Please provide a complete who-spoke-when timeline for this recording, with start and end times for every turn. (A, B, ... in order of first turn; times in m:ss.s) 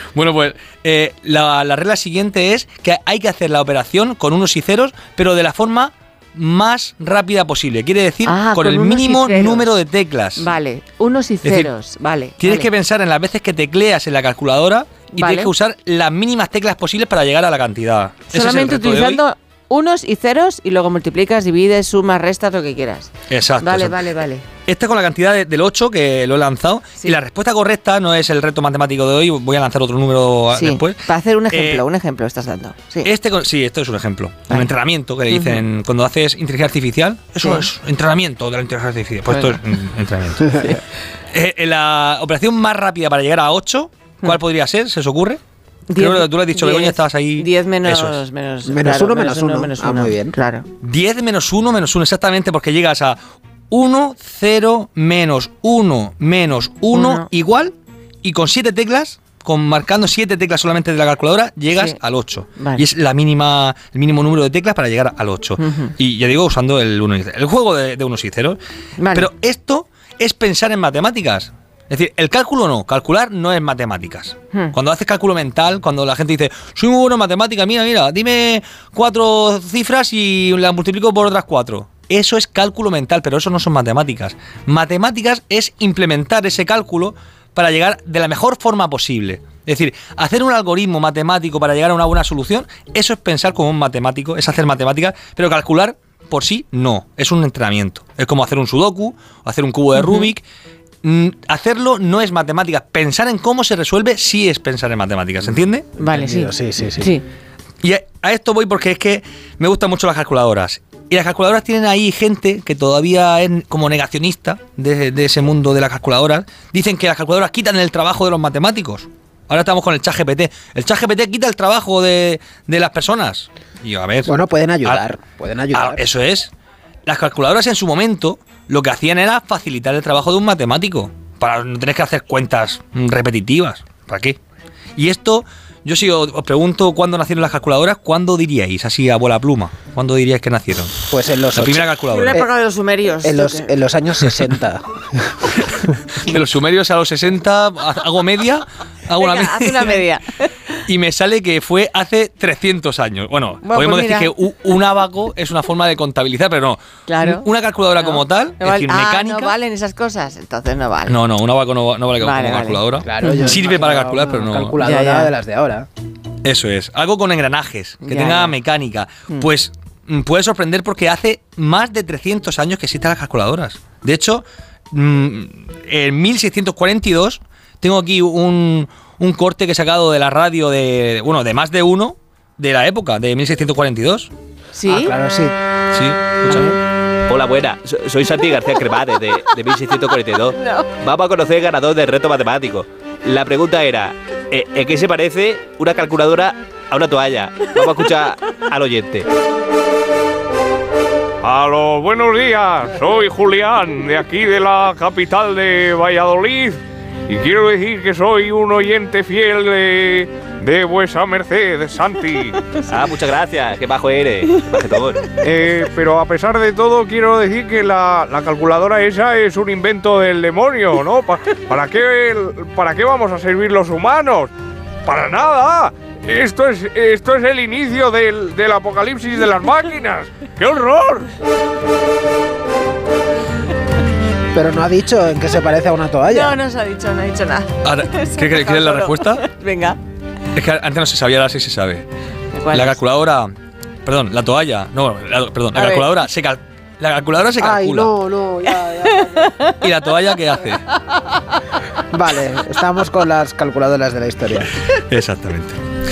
0:00.1-0:10.5 A
0:08.2-0:09.8 B
0:10.4-0:12.7 B
0:11.4-0:11.7 A
0:12.4-0:19.2 A
0:15.1-0:15.5 B
0:18.3-0:24.4 B
0:23.3-0:24.0 A
0:24.7-0:31.8 A
0:30.5-0:33.1 B
0:33.0-0:40.8 A
0:34.5-0:34.7 B
0:35.3-0:35.6 B
0:37.4-0:37.7 B
0:39.3-0:39.6 B
0:41.3-0:45.4 A
0:45.9-0:50.7 B
0:46.0-0:48.2 A
0:48.7-0:50.3 C
0:50.8-0:53.2 A
0:53.7-1:08.6 A
0:56.9-0:57.2 B
1:01.7-1:02.0 B
1:02.6-1:02.8 B
1:05.6-1:05.9 B
1:09.0-1:09.3 B
1:09.1-1:40.4 A
1:40.0-1:40.3 B
1:41.0-1:45.9 A
1:46.0-1:47.2 B
1:46.0-1:47.2 C
1:47.8-2:05.0 A
2:04.2-2:06.0 C
2:05.7-2:06.5 A
2:07.0-2:14.4 A
2:15.0-2:21.0 A
2:21.1-2:22.5 C
2:21.5-2:22.4 A
2:22.0-2:23.7 B
2:23.2-2:25.7 C
2:25.7-2:30.1 A
2:29.2-2:30.6 B
2:30.8-2:39.5 A
2:33.6-2:34.3 B
2:37.1-2:41.2 B
2:41.1-2:44.8 A
2:42.2-2:43.6 B
2:43.0-2:45.9 C
2:44.8-2:45.3 B
2:46.4-3:04.3 A
2:48.0-2:48.6 B
3:04.7-3:05.2 B
3:04.9-3:05.5 C
3:05.9-3:06.7 A
3:06.5-3:06.7 B
3:07.3-3:19.3 D
3:10.6-3:10.9 B
3:21.4-3:32.8 E
3:32.9-3:35.2 D
3:35.4-3:44.5 E
3:45.0-3:51.3 E
3:54.5-3:56.6 C
3:56.3-4:00.0 B
3:57.8-3:59.4 A
4:00.5-4:02.1 A
4:02.5-4:03.0 B
4:02.7-4:03.5 A
4:04.0-4:08.2 A
4:05.7-4:06.1 B
4:07.6-4:09.5 C
4:08.7-4:09.9 B
4:09.8-4:10.8 A
4:11.2-4:11.6 B
4:12.1-4:14.7 C
4:14.6-4:15.8 A